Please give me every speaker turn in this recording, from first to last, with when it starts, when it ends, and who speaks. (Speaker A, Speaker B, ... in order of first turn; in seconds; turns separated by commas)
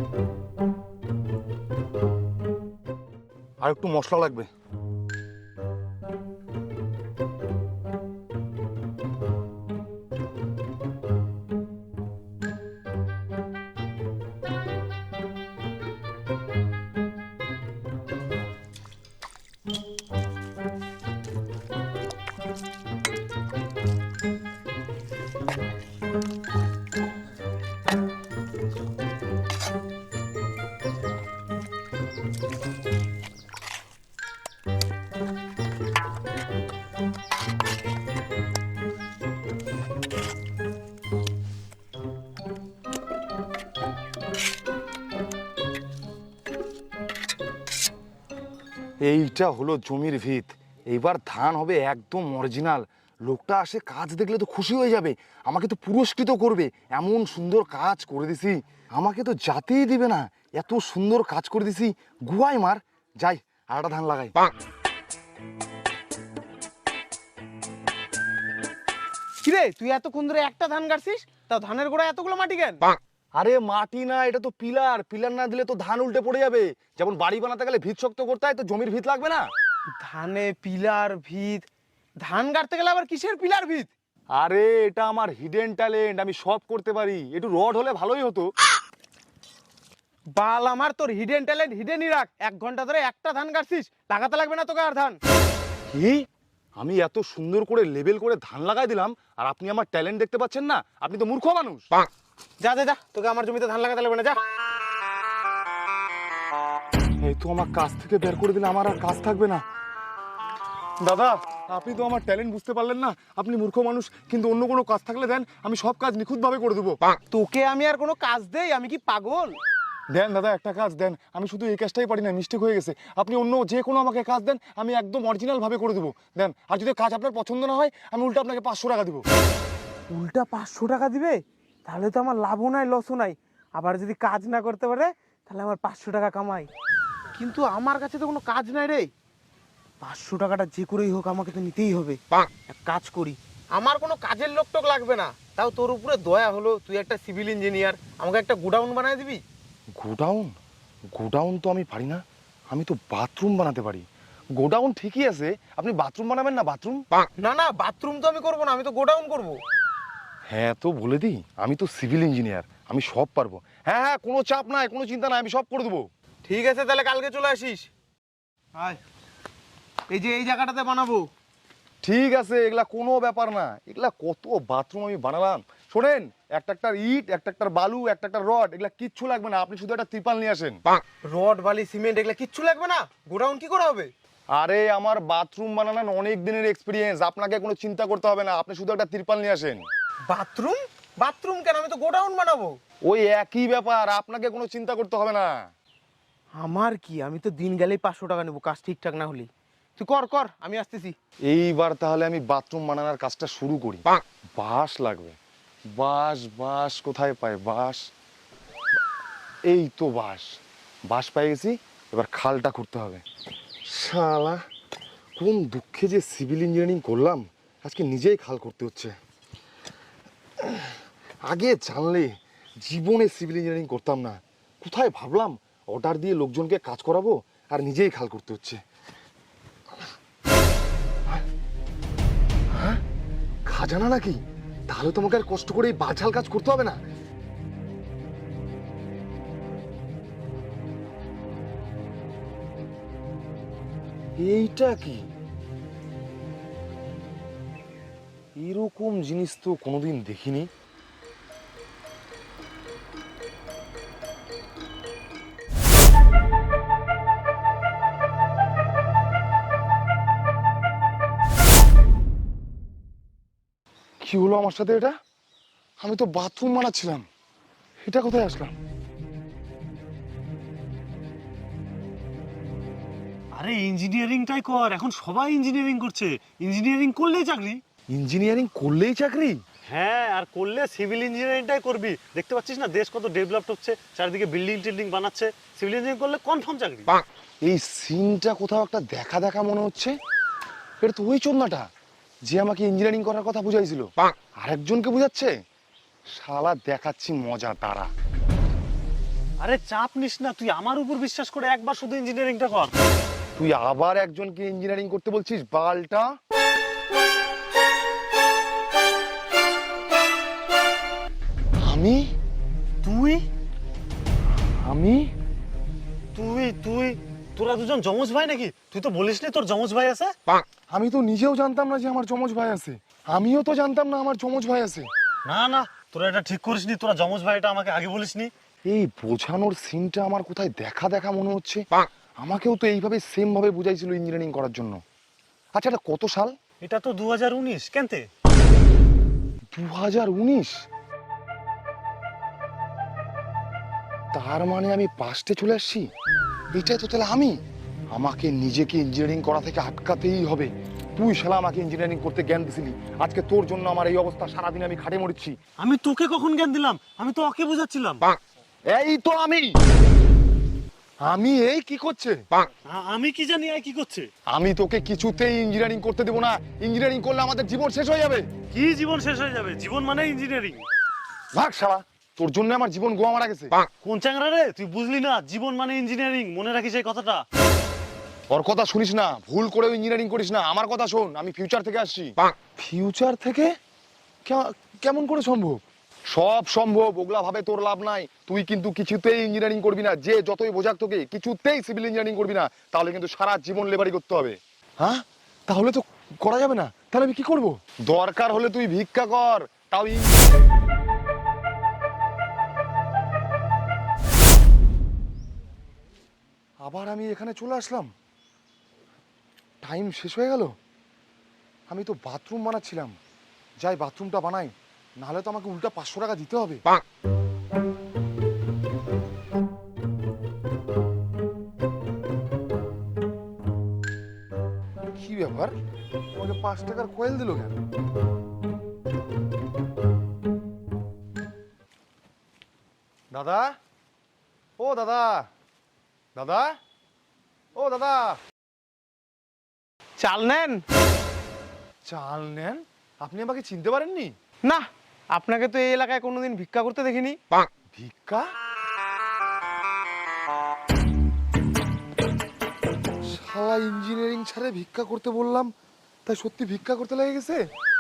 Speaker A: 3.6-4.5, Speaker A: 49.0-64.4, Speaker B: 69.4-72.9, Speaker A: 73.4-79.5, Speaker B: 80.0-81.7, Speaker B: 82.2-83.9, Speaker A: 84.4-88.5, Speaker B: 90.3-95.2, Speaker A: 95.9-96.2, Speaker A: 96.8-101.8, Speaker B: 102.6-104.4, Speaker A: 107.2-109.6, Speaker A: 111.0-117.0, Speaker B: 117.3-119.6, Speaker A: 120.1-129.2, Speaker B: 130.1-136.7, Speaker B: 137.4-139.1, Speaker B: 140.0-149.4, Speaker A: 150.0-150.5, Speaker A: 151.2-157.1, Speaker B: 157.4-159.6, Speaker A: 160.5-166.1, Speaker B: 166.4-167.9, Speaker B: 168.8-169.0, Speaker B: 170.1-171.3, Speaker A: 172.0-180.8, Speaker B: 181.2-184.1, Speaker A: 184.5-189.8, Speaker B: 190.3-192.7, Speaker A: 193.1-195.5, Speaker B: 196.6-201.2, Speaker A: 201.5-205.4, Speaker A: 205.9-208.1, Speaker A: 209.7-213.2, Speaker A: 213.9-214.6, Speaker A: 215.4-219.1, Speaker A: 220.6-220.9, Speaker A: 221.5-228.8, Speaker A: 232.7-233.0, Speaker A: 233.7-237.0, Speaker A: 244.4-245.3, Speaker A: 248.6-250.7, Speaker A: 264.2-265.1, Speaker A: 266.0-267.2, Speaker A: 268.0-268.7, Speaker C: 273.6-277.8, Speaker A: 278.1-279.6, Speaker C: 279.9-287.2, Speaker A: 287.6-290.2, Speaker A: 291.0-291.9, Speaker A: 292.5-294.1, Speaker A: 294.6-295.5, Speaker A: 296.4-298.1, Speaker C: 299.6-302.9, Speaker A: 303.6-306.3, Speaker A: 311.8-312.3, Speaker C: 313.0-313.5, Speaker A: 314.6-315.3, Speaker C: 316.3-320.4, Speaker A: 320.9-325.1, Speaker C: 325.4-328.5, Speaker A: 328.9-331.9, Speaker A: 332.4-335.0, Speaker A: 335.8-336.5, Speaker C: 336.8-338.3, Speaker A: 339.7-340.9, Speaker A: 344.3-346.1, Speaker A: 346.7-347.6, Speaker A: 348.1-355.6, Speaker C: 355.8-358.4, Speaker A: 358.9-359.8, Speaker A: 361.2-362.4, Speaker C: 362.9-364.3, Speaker A: 364.5-368.5, Speaker C: 368.7-370.9, Speaker A: 371.5-373.8, Speaker C: 373.9-377.4, Speaker A: 378.5-383.7, Speaker A: 384.4-400.5, Speaker A: 406.8-408.1, Speaker A: 409.8-410.7, Speaker A: 411.9-413.2, Speaker A: 413.8-416.8, Speaker A: 425.1-425.7, Speaker A: 426.4-427.7, Speaker A: 433.3-433.8, Speaker A: 434.8-435.5, Speaker A: 436.4-436.8, Speaker A: 437.8-438.4, Speaker B: 440.2-440.8, Speaker A: 442.1-444.3, Speaker B: 444.6-447.4, Speaker A: 447.9-448.5, Speaker A: 453.2-455.7, Speaker A: 456.3-457.7